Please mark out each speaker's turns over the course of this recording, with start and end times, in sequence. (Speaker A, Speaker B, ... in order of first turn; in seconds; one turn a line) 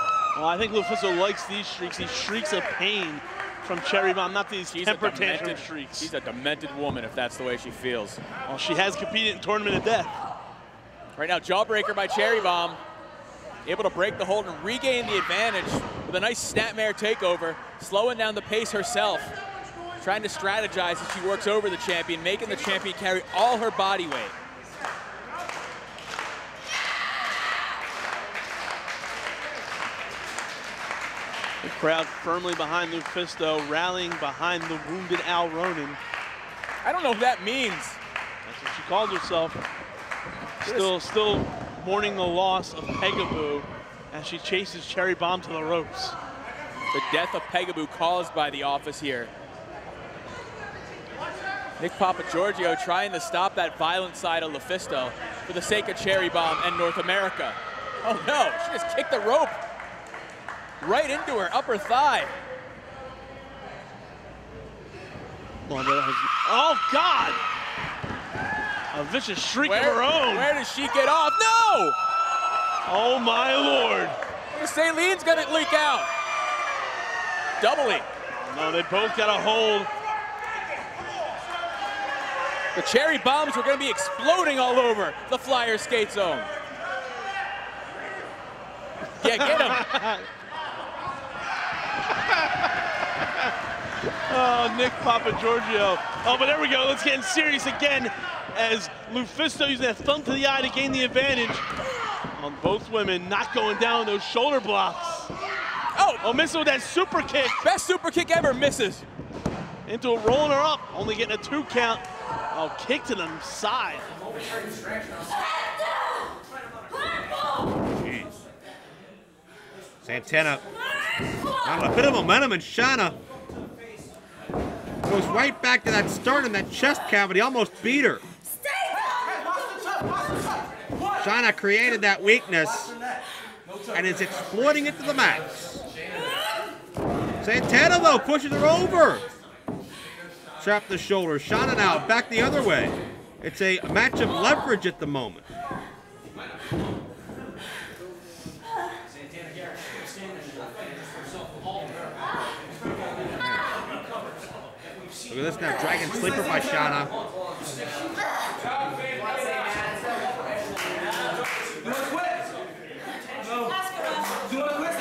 Speaker A: 0.3-6.1
Speaker B: 4.7-8.2
Speaker A: 8.5-10.1
Speaker B: 11.2-12.8
Speaker B: 13.7-19.3
Speaker B: 20.0-24.4
Speaker A: 31.6-36.0
Speaker B: 36.8-38.0
Speaker A: 38.5-39.6
Speaker A: 40.6-46.2
Speaker B: 40.6-40.9
Speaker B: 46.9-49.3
Speaker B: 51.8-59.6
Speaker B: 60.8-62.3
Speaker A: 65.7-67.4
Speaker A: 68.9-70.5
Speaker B: 69.6-72.0
Speaker A: 72.9-74.2
Speaker B: 74.5-76.1
Speaker B: 77.6-78.1
Speaker A: 78.3-79.9
Speaker B: 82.8-86.5
Speaker B: 89.2-89.9
Speaker A: 89.2-90.2
Speaker A: 94.3-101.7
Speaker A: 102.4-105.3
Speaker B: 106.0-106.2
Speaker A: 106.2-107.6
Speaker B: 107.6-109.1
Speaker A: 109.9-114.1
Speaker C: 118.0-118.4
Speaker C: 120.0-120.7
Speaker C: 121.6-123.2
Speaker C: 125.0-128.2
Speaker C: 131.2-132.9
Speaker C: 133.9-135.8
Speaker C: 137.4-139.3
Speaker C: 140.6-145.5
Speaker C: 153.4-153.7
Speaker C: 155.3-157.1